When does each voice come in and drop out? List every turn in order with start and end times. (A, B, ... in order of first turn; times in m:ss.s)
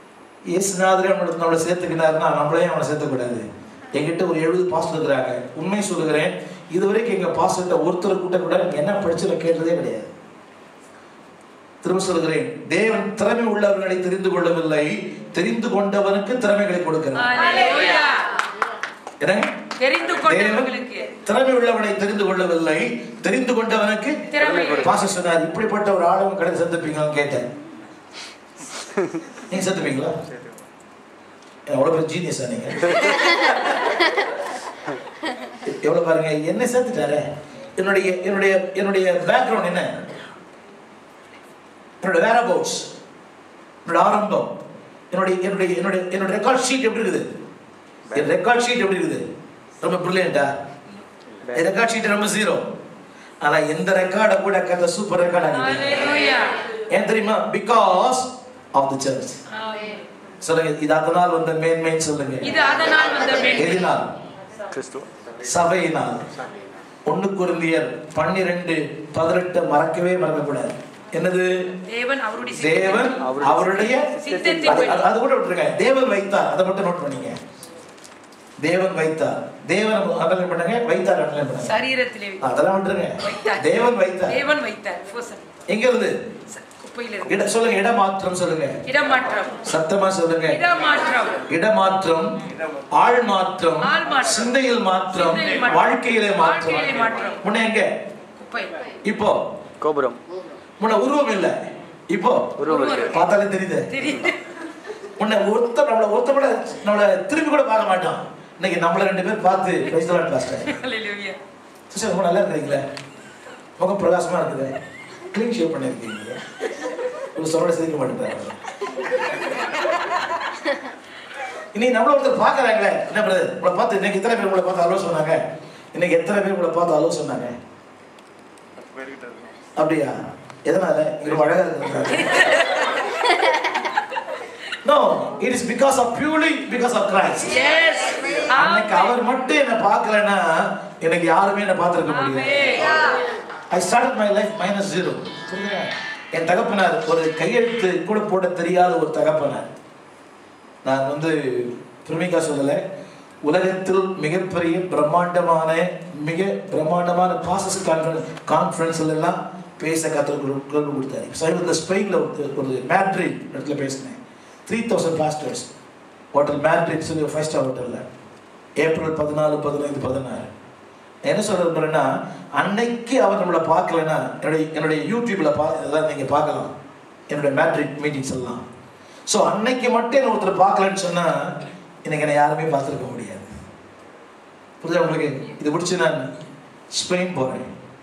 0:00.5-0:10.1 A
0:11.8-0:17.4 A
0:17.2-0:18.4 B
0:19.2-0:19.6 A
0:19.8-0:21.1 B
0:20.2-0:27.5 A
0:24.3-0:24.9 B
0:24.4-0:24.9 C
0:29.5-0:30.2 A
0:31.7-0:33.1 A
0:35.7-0:37.2 A
0:37.8-0:39.9 A
0:42.0-0:42.9 A
0:43.8-0:44.5 A
0:45.1-0:47.3 A
0:48.1-0:49.2 A
0:49.8-0:50.5 A
0:51.5-0:52.6 A
0:53.4-0:56.2 A
0:55.5-0:56.6 B
0:56.9-0:59.4 A
0:59.5-1:00.0 B
1:00.4-1:02.6 A
1:02.4-1:03.9 B
1:03.6-1:04.1 A
1:04.7-1:05.1 C
1:05.4-1:06.3 A
1:07.1-1:11.5 A
1:11.9-1:15.1 B
1:12.6-1:14.1 A
1:13.2-1:14.8 C
1:14.7-1:17.4 A
1:18.6-1:21.8 A
1:21.6-1:22.4 B
1:22.4-1:24.4 A
1:23.2-1:25.5 B
1:25.7-1:26.1 A
1:26.5-1:27.3 B
1:27.2-1:28.8 A
1:28.9-1:29.7 B
1:29.7-1:30.6 A
1:30.5-1:31.4 B
1:31.5-1:32.3 A
1:33.0-1:37.9 A
1:33.8-1:34.5 B
1:35.1-1:37.4 B
1:38.4-1:38.8 B
1:39.0-1:39.4 A
1:39.8-1:40.2 C
1:40.8-1:41.6 A
1:42.1-1:42.5 A
1:42.6-1:43.1 C
1:42.7-1:43.2 B
1:43.1-1:44.0 A
1:43.9-1:44.4 B
1:45.2-1:50.8 A
1:50.7-1:51.4 B
1:51.9-1:52.8 A
1:53.8-1:54.8 A
1:55.3-1:56.4 A
1:57.4-1:58.6 A
2:01.7-2:05.4 A
2:05.9-2:07.5 A
2:09.8-2:12.6 A
2:14.8-2:17.6 A
2:17.5-2:19.2 B
2:18.5-2:22.8 A
2:22.1-2:23.2 B
2:23.7-2:29.7 A
2:30.8-2:32.8 A
2:33.4-2:45.7 A
2:46.3-2:48.0 A
2:48.8-2:50.5 A
2:51.2-2:56.7 A
2:57.3-2:58.6 A
2:59.3-3:01.5 A
3:02.0-3:03.5 A
3:04.8-3:06.2 A
3:06.9-3:07.7 A